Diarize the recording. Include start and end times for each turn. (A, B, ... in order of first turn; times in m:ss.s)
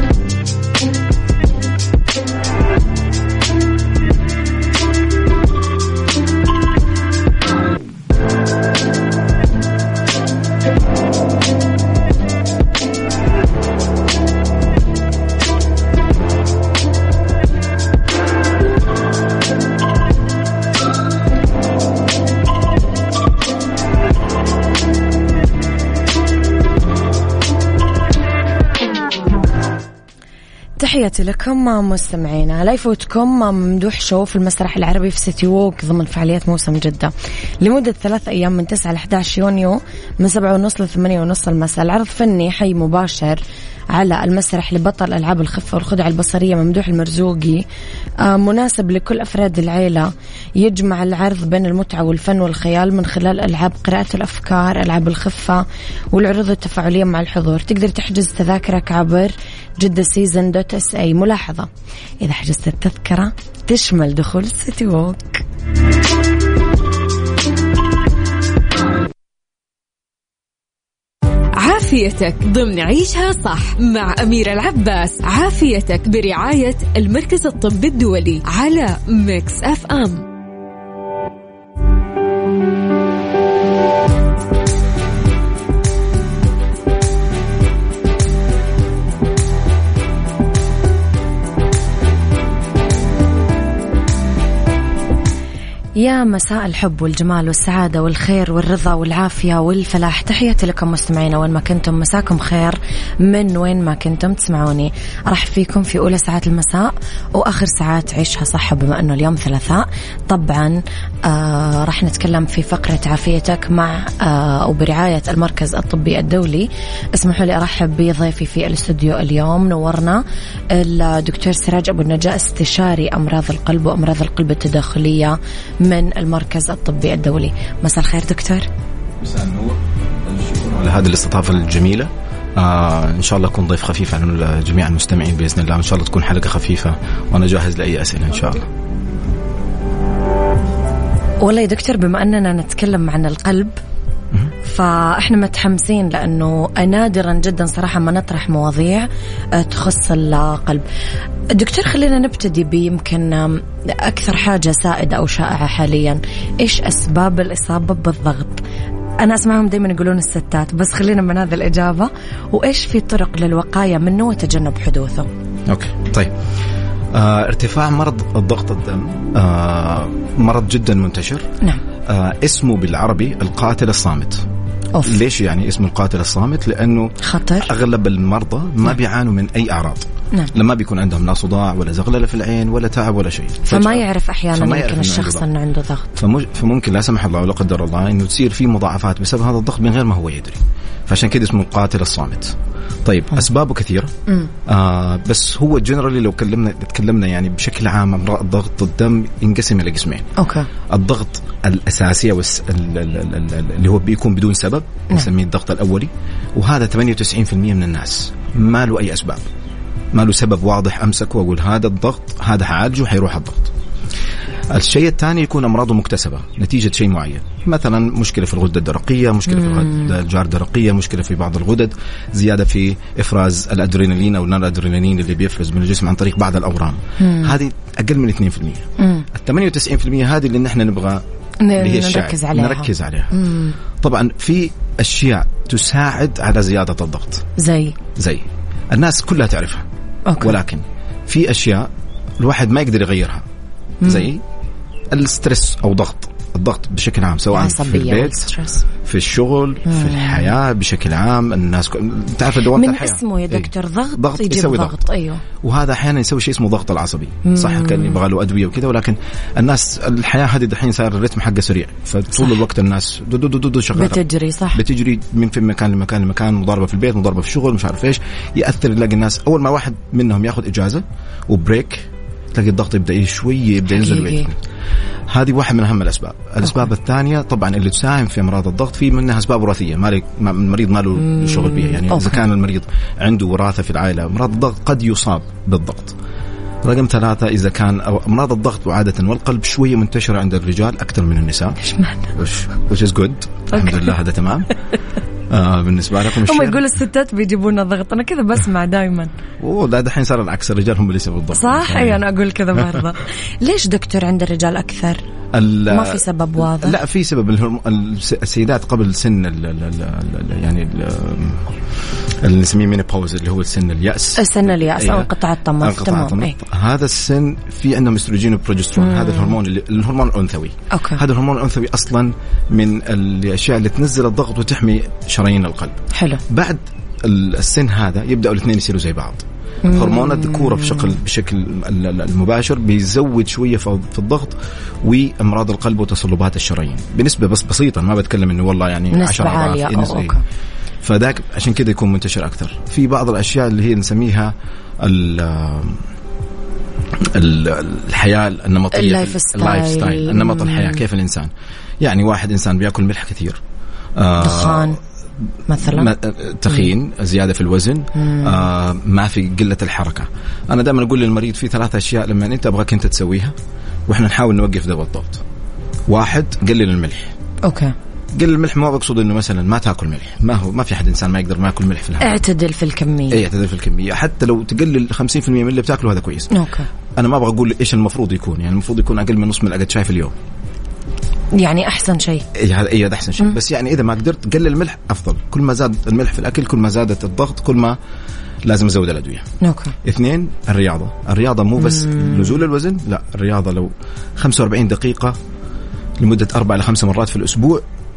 0:30.8-0:43.4 A
0:43.9-0:47.7 A
0:48.2-1:01.7 A
1:02.2-1:05.4 A
1:11.6-1:20.3 B
1:36.0-2:08.7 A
2:09.2-2:18.7 C
2:21.4-2:23.8 A
2:24.6-2:30.8 A
2:31.5-2:38.6 A
2:39.2-2:45.3 A
2:45.7-2:46.4 C
2:47.1-2:51.5 C
2:52.1-2:54.4 C
2:55.0-3:05.5 C
2:57.2-2:57.7 A
3:03.7-3:06.1 A
3:06.2-3:14.1 C
3:14.7-3:20.3 C
3:20.4-3:20.7 A
3:20.9-3:29.4 C
3:30.1-3:33.7 C
3:34.7-3:51.2 C
3:47.2-3:47.5 A
3:49.0-3:49.3 A
3:51.6-3:53.8 A
3:51.8-3:53.4 C
3:54.0-3:57.5 C
3:57.6-3:58.0 A
3:58.2-3:59.9 C
4:00.3-4:00.6 A
4:00.4-4:03.4 C
4:04.0-4:04.3 A
4:04.0-4:04.4 C
4:05.1-4:08.5 C
4:07.5-4:08.9 A
4:09.0-4:15.0 C
4:09.9-4:10.5 A
4:12.7-4:15.4 A
4:15.6-4:34.6 C
4:17.4-4:18.2 A
4:23.9-4:24.8 A
4:33.9-4:34.5 A
4:35.3-4:46.2 C
4:41.5-4:42.4 A
4:46.8-4:51.8 C
4:51.8-4:52.3 A
4:52.3-4:54.7 C
4:53.7-4:54.1 A
4:55.5-4:56.8 C
4:56.4-4:59.3 A
4:59.6-5:02.2 C
5:01.5-5:05.2 A
5:02.7-5:03.0 C
5:05.5-5:11.8 C
5:05.9-5:07.0 A
5:12.4-5:40.4 C
5:14.4-5:16.6 A
5:19.0-5:19.5 A
5:20.9-5:21.2 A
5:26.1-5:26.4 A
5:29.8-5:31.1 A
5:39.1-5:40.4 A
5:41.0-5:46.0 C
5:47.2-5:53.6 C
5:48.9-5:51.0 A
5:54.2-5:55.0 C
5:54.4-5:55.0 A
5:55.7-5:56.1 A
5:55.8-6:03.6 C
5:58.2-5:58.6 A
6:04.1-6:05.4 C
6:06.1-6:07.3 C
6:07.6-6:07.9 A
6:08.4-6:12.4 C
6:12.2-6:13.4 A
6:13.3-6:16.5 C
6:16.5-6:16.9 A
6:17.2-6:20.4 C
6:21.6-6:22.5 A
6:22.5-6:28.0 C
6:28.6-6:29.5 C
6:29.6-6:30.0 A
6:30.0-6:35.4 C
6:36.2-6:37.8 C